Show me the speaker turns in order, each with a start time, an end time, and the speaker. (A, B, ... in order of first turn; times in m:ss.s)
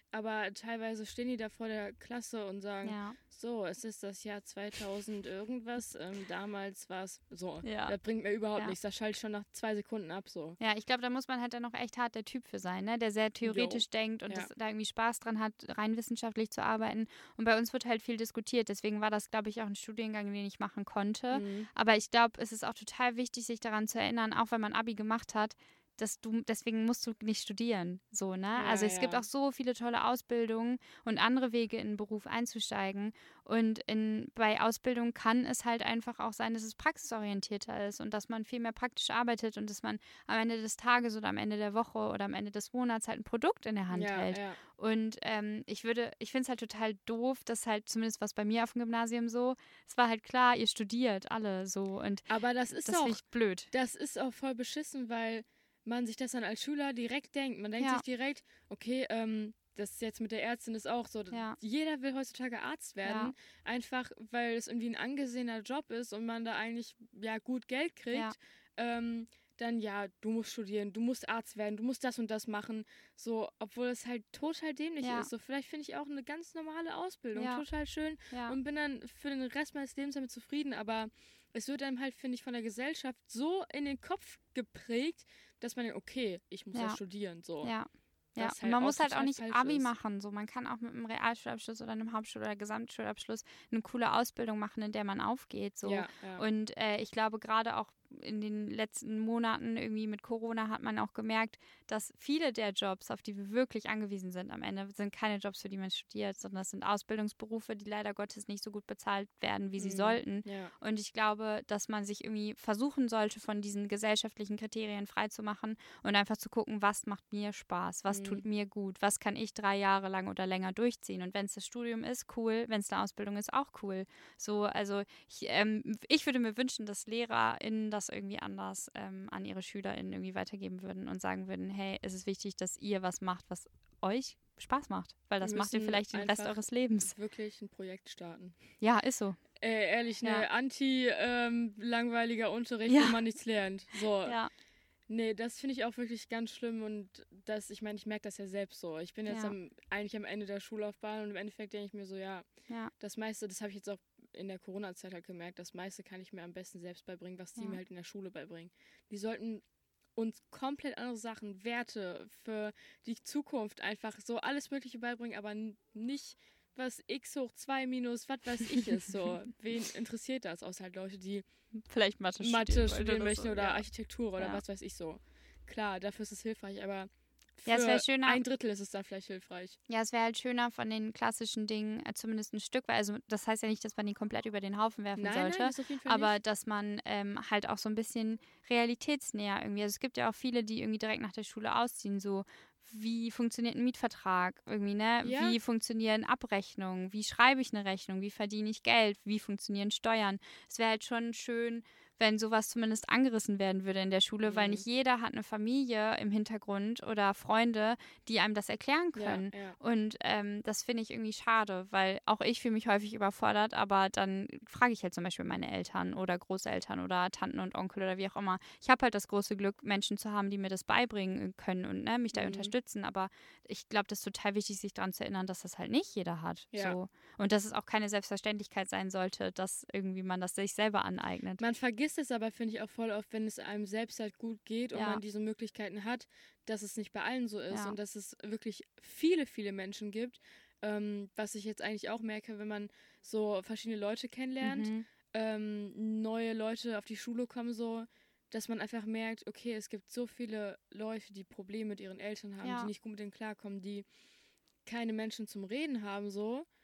0:00.1-0:10.6 A
0:02.8-0:03.2 B
0:07.6-0:08.0 B
0:10.6-0:52.3 B
0:13.4-0:14.5 A
0:21.3-0:21.7 A
0:28.6-0:29.2 A
0:43.9-0:44.6 A
0:52.3-1:27.7 A
0:52.8-0:53.7 B
1:01.3-1:01.6 B
1:03.0-1:03.3 B
1:15.0-1:15.3 B
1:17.4-1:17.6 B
1:18.3-1:18.6 B
1:26.7-1:27.0 B
1:27.6-2:17.1 B
1:28.4-1:29.9 A
1:35.8-1:36.4 A
1:49.8-1:50.7 A
1:58.1-1:58.4 A
2:15.4-2:18.6 A
2:18.8-2:19.4 B
2:19.6-2:24.4 A
2:22.9-2:23.2 B
2:24.2-2:24.5 B
2:25.1-2:39.6 A
2:29.3-2:29.6 B
2:40.2-2:51.5 A
2:51.8-2:53.8 B
2:52.4-2:59.8 A
2:57.7-2:58.4 B
2:59.9-3:51.6 B
3:05.2-3:06.4 A
3:15.2-3:15.6 A
3:24.5-3:24.8 A
3:29.2-3:29.8 A
3:42.3-3:42.7 A
3:51.6-4:14.1 A
3:55.0-3:55.2 B
3:57.7-3:58.0 B
4:04.6-4:05.1 B
4:12.6-4:12.9 B
4:14.8-4:16.7 A